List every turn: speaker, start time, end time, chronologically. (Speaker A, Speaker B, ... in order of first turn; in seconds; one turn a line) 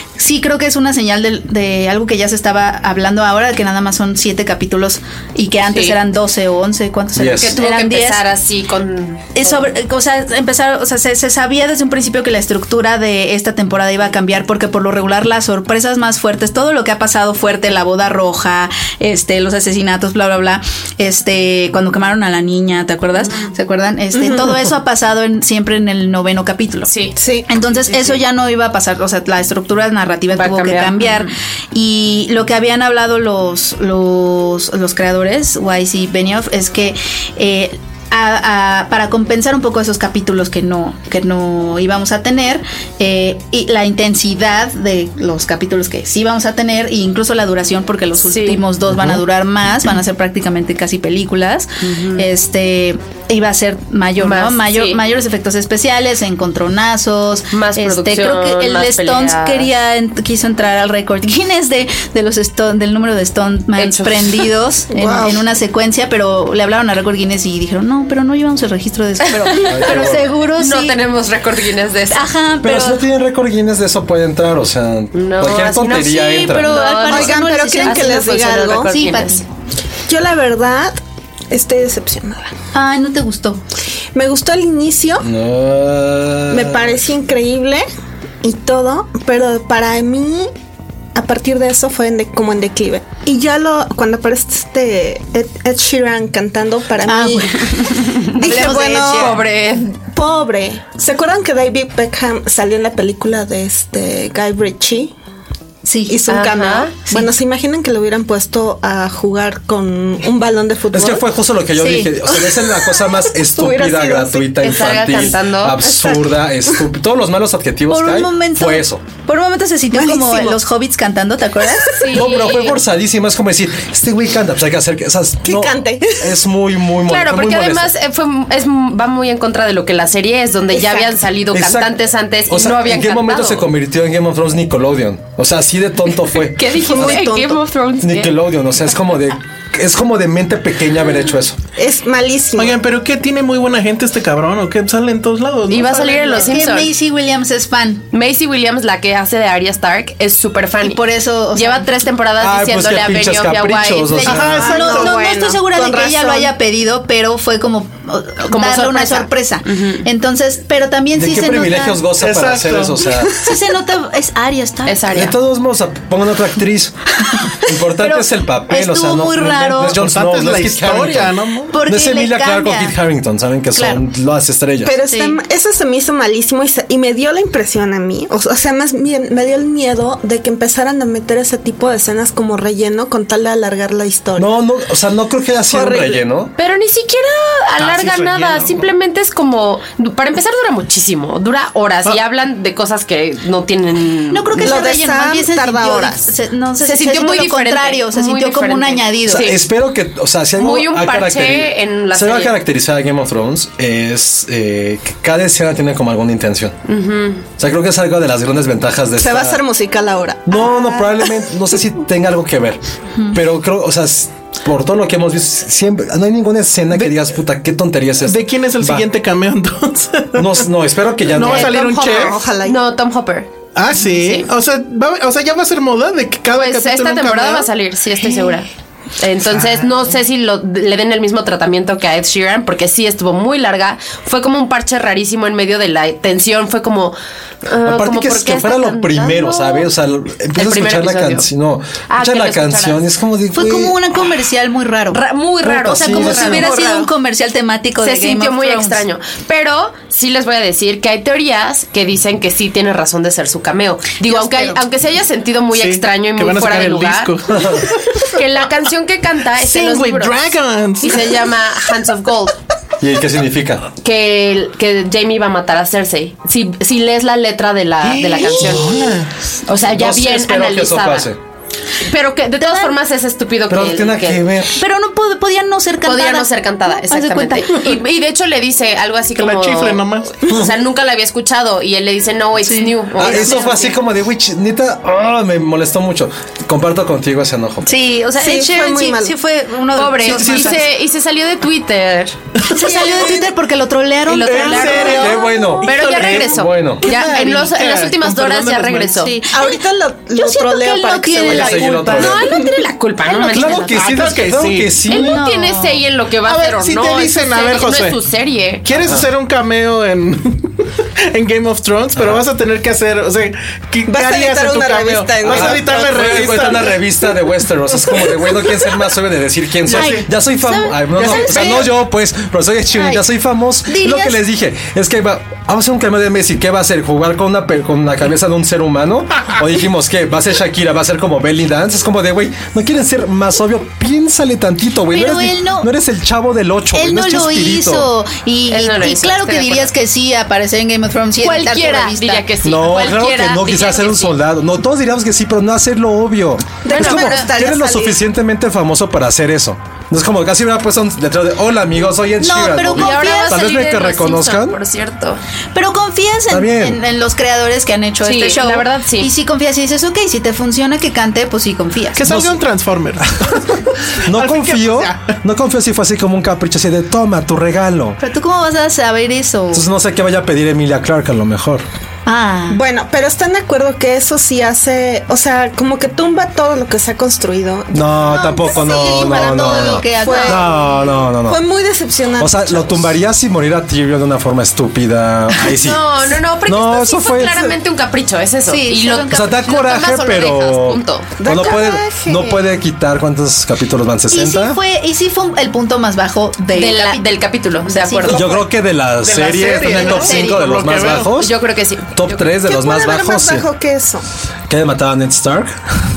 Speaker A: 0.2-8.2
Speaker B: 7.2-7.5
Speaker C: 7.4-9.7
Speaker A: 9.3-26.9
Speaker D: 24.1-24.5
Speaker C: 26.9-27.1
Speaker D: 27.1-27.4
Speaker A: 27.5-71.0
Speaker C: 30.3-31.3
Speaker C: 48.2-48.6
Speaker B: 48.9-49.2
Speaker C: 51.8-52.2
Speaker C: 54.2-55.0
Speaker C: 57.5-59.7
Speaker C: 63.8-64.5
Speaker D: 64.9-65.5
Speaker C: 69.6-72.3
Speaker B: 69.7-70.3
Speaker A: 72.1-73.0
Speaker B: 72.6-76.8
Speaker C: 75.1-79.4
Speaker A: 76.3-79.5
Speaker D: 77.0-78.9
Speaker D: 80.1-81.0
Speaker D: 81.5-82.5
Speaker A: 82.7-83.6
Speaker D: 84.1-85.2
Speaker B: 85.2-87.0
Speaker D: 86.5-87.8
Speaker D: 88.4-90.5
Speaker D: 91.1-99.4
Speaker A: 97.1-99.4
Speaker C: 97.9-99.9
Speaker D: 100.0-105.1
Speaker A: 105.8-106.2
Speaker D: 106.1-111.2
Speaker C: 106.3-107.0
Speaker B: 110.9-119.0
Speaker A: 111.8-112.1
Speaker D: 112.4-114.6
Speaker C: 114.6-115.8
Speaker D: 115.9-116.3
Speaker A: 117.9-122.0
Speaker D: 119.9-120.6
Speaker D: 121.8-122.2
Speaker C: 122.0-122.8
Speaker B: 122.1-127.9
Speaker D: 125.4-126.3
Speaker C: 127.1-133.7
Speaker D: 130.7-131.2
Speaker B: 131.5-137.2
Speaker C: 136.3-138.3
Speaker D: 136.9-137.6
Speaker B: 138.0-141.6
Speaker D: 141.8-142.8
Speaker E: 142.6-146.6
Speaker C: 145.7-146.9
Speaker A: 146.4-148.1
Speaker C: 148.1-151.0
Speaker A: 150.8-151.8
Speaker C: 151.5-154.3
Speaker B: 152.4-154.6
Speaker A: 154.2-162.0
Speaker E: 154.2-155.2
Speaker D: 154.5-156.5
Speaker C: 158.5-160.0
Speaker B: 161.1-163.3
Speaker E: 162.2-163.1
Speaker A: 163.3-165.1
Speaker C: 164.8-165.3
Speaker B: 165.1-166.9
Speaker B: 167.6-174.9
Speaker A: 168.0-169.9
Speaker E: 169.8-171.7
Speaker A: 171.7-172.9
Speaker A: 173.7-174.0
Speaker D: 174.8-184.5
Speaker A: 175.1-175.4
Speaker B: 184.4-186.5
Speaker D: 185.7-186.2
Speaker C: 186.6-194.8
Speaker E: 187.8-188.9
Speaker A: 194.3-199.4
Speaker D: 194.6-196.3
Speaker C: 196.8-199.6
Speaker B: 199.3-206.8
Speaker C: 200.6-202.5
Speaker C: 206.9-207.4
Speaker B: 207.6-209.6
Speaker D: 209.2-211.4
Speaker B: 210.4-212.8
Speaker B: 213.3-219.1
Speaker E: 218.2-220.6
Speaker B: 220.3-221.8
Speaker E: 221.2-222.4
Speaker C: 221.4-223.5
Speaker D: 221.5-222.8
Speaker E: 223.7-227.7
Speaker C: 224.1-224.5
Speaker C: 226.5-228.7
Speaker C: 229.2-239.9
Speaker E: 229.5-229.9
Speaker B: 237.8-244.0
Speaker C: 240.5-241.5
Speaker C: 242.1-243.0
Speaker A: 243.5-245.2
Speaker C: 245.1-247.1
Speaker B: 245.6-246.7
Speaker A: 245.8-249.0
Speaker C: 248.0-257.3
Speaker A: 254.2-254.8
Speaker E: 255.7-258.3
Speaker B: 257.5-257.8
Speaker C: 258.2-262.6
Speaker E: 259.6-261.5
Speaker B: 263.0-263.9
Speaker C: 264.0-269.0
Speaker E: 268.1-269.3
Speaker B: 268.6-269.1
Speaker C: 269.7-271.3
Speaker B: 269.8-271.4
Speaker C: 272.0-274.4
Speaker A: 272.6-272.9
Speaker B: 273.7-274.7
Speaker A: 274.8-277.9
Speaker C: 276.1-284.0
Speaker E: 279.4-280.3
Speaker B: 280.5-280.7
Speaker A: 282.6-283.7
Speaker B: 283.2-287.9
Speaker A: 287.8-290.8
Speaker D: 288.4-289.3
Speaker C: 289.9-292.4
Speaker B: 290.3-290.7
Speaker A: 292.6-295.2
Speaker D: 292.9-293.4
Speaker C: 294.3-299.3
Speaker E: 294.4-299.3
Speaker B: 295.1-297.1
Speaker A: 299.1-299.8
Speaker D: 299.5-302.8
Speaker A: 300.3-302.5
Speaker B: 301.4-302.5
Speaker C: 302.1-304.0
Speaker A: 303.3-304.0
Speaker B: 303.4-305.4
Speaker E: 303.9-305.0
Speaker C: 305.1-308.8
Speaker A: 305.1-306.0
Speaker E: 306.4-308.2
Speaker E: 308.8-317.0
Speaker B: 312.1-312.4
Speaker D: 314.1-316.0
Speaker B: 315.4-338.1
Speaker E: 319.8-320.3
Speaker A: 319.9-321.8
Speaker E: 321.1-321.9
Speaker A: 323.9-324.4
Speaker A: 335.1-335.9
Speaker A: 336.9-342.4
Speaker C: 338.7-339.9
Speaker C: 341.4-344.4
Speaker B: 342.6-354.8
Speaker D: 346.8-348.2
Speaker C: 346.9-347.5
Speaker A: 352.4-353.6
Speaker C: 352.9-355.4
Speaker A: 355.7-362.2
Speaker B: 356.5-357.0
Speaker C: 358.2-359.3
Speaker E: 362.1-365.3
Speaker B: 362.2-362.6
Speaker B: 364.2-368.2
Speaker A: 368.2-369.9
Speaker B: 369.7-371.8
Speaker A: 372.2-372.8
Speaker D: 372.7-380.7
Speaker B: 377.9-381.6
Speaker A: 378.6-381.1
Speaker D: 381.4-383.1
Speaker B: 382.4-386.1
Speaker C: 385.7-391.7
Speaker B: 386.6-387.7
Speaker A: 388.6-390.5
Speaker B: 389.3-394.8
Speaker D: 391.4-392.6
Speaker A: 394.3-397.3
Speaker C: 396.7-398.5
Speaker A: 397.9-398.6
Speaker B: 398.3-401.5
Speaker E: 399.2-401.3
Speaker A: 399.9-400.6
Speaker C: 401.3-402.5
Speaker B: 402.1-403.6
Speaker D: 402.6-404.2
Speaker B: 404.7-405.8